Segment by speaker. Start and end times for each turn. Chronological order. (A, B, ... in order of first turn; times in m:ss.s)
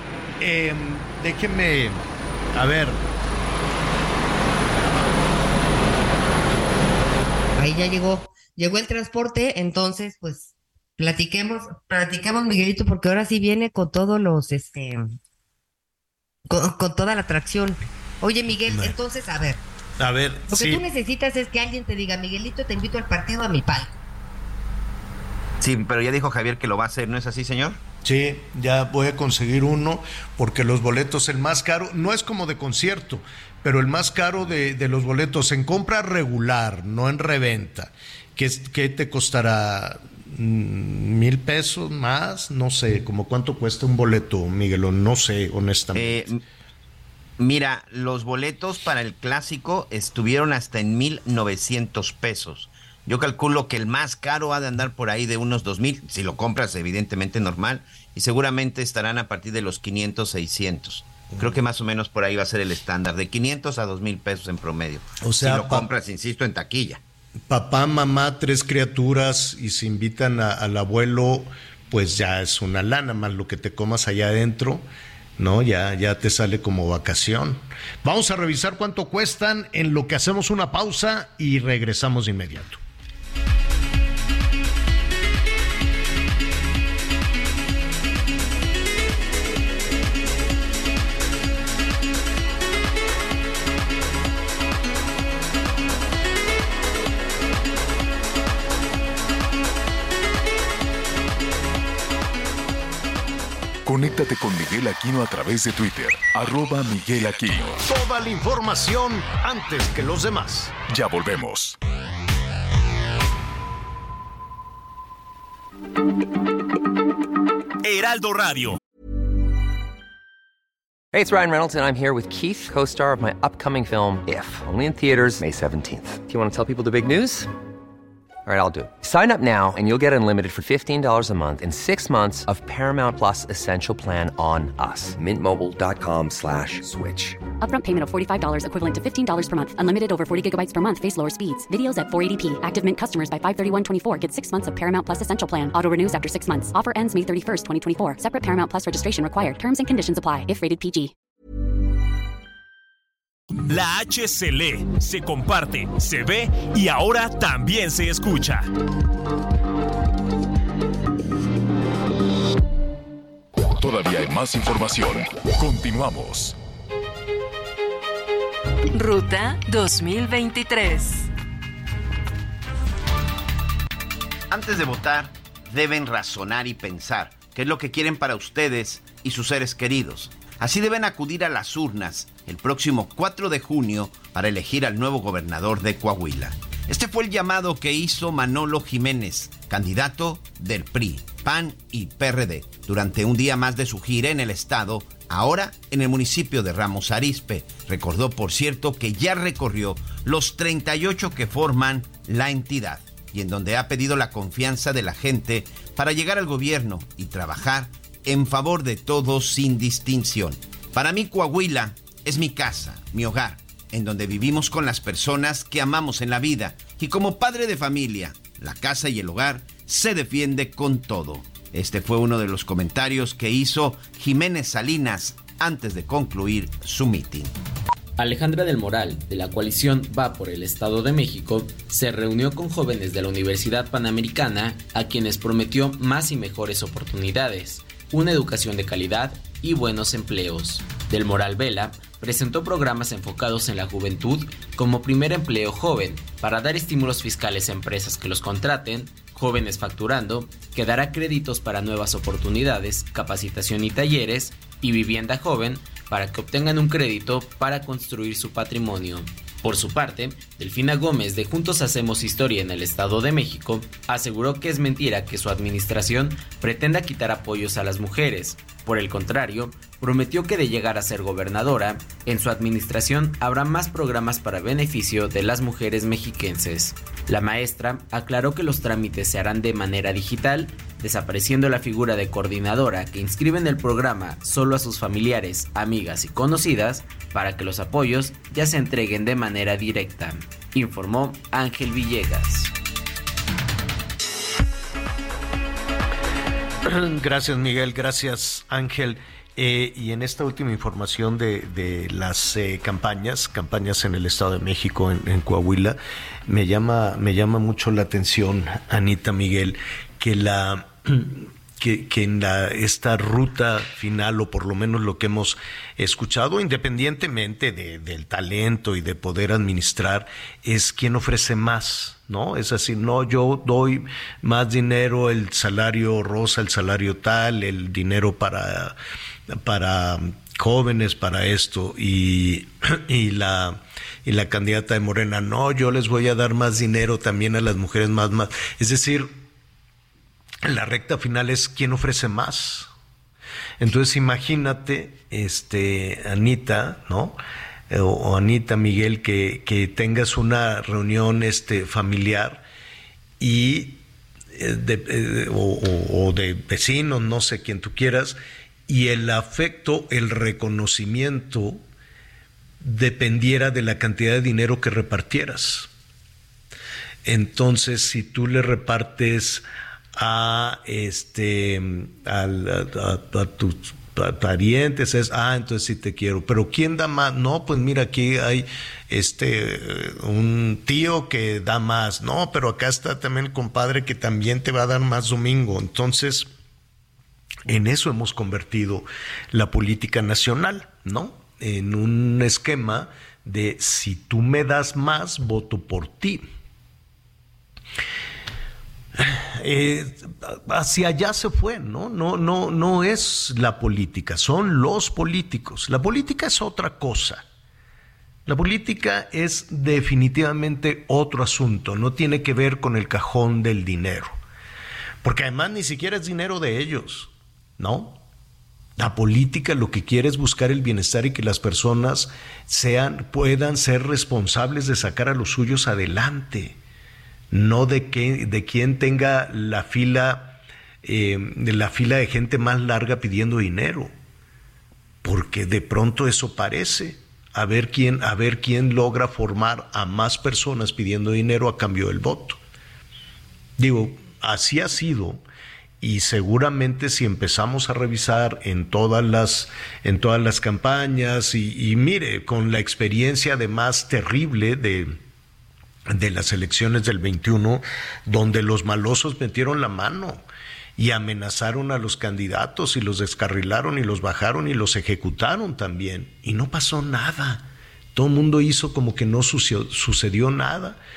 0:00.4-0:03.0 A
0:07.6-0:15.1 B
0:16.5-0:19.6 B
0:18.6-0:19.0 A
0:20.0-0:20.8 A
0:20.5-0:24.0 B
0:25.6-0:27.8 C
0:28.0-0:46.3 A
0:46.0-0:46.4 C
0:47.4-1:07.0 C
1:01.3-1:01.6 A
1:05.2-1:05.9 A
1:07.5-1:14.8 A
1:15.4-1:22.8 A
1:43.8-1:47.8 D
1:47.8-1:50.8 A
1:50.9-1:51.8 D
1:57.8-1:58.8 E
2:01.1-2:07.5 F
2:08.4-2:17.4 F
2:17.6-2:31.1 G
2:33.6-2:38.7 E
2:43.8-2:46.6 D
2:48.9-2:51.3 H
2:54.5-3:47.5 C
3:48.2-4:52.7 I
4:56.8-5:29.0 A
5:29.5-5:39.3 A
5:40.6-5:42.9 A
5:43.8-5:47.4 A
5:47.9-5:52.7 A
5:53.4-5:54.0 A
5:54.5-6:01.8 A
6:02.8-6:05.9 A
6:07.2-6:09.6 A
6:10.1-6:26.5 A
6:27.6-6:36.4 A
6:39.1-6:47.4 A
6:48.4-6:54.4 A
6:55.2-6:58.2 A
6:59.0-7:06.8 A
7:07.5-7:14.1 A
7:15.2-7:22.6 A
7:23.8-7:25.4 A
7:26.0-7:35.2 A
7:36.1-7:40.4 A
7:41.0-7:51.0 A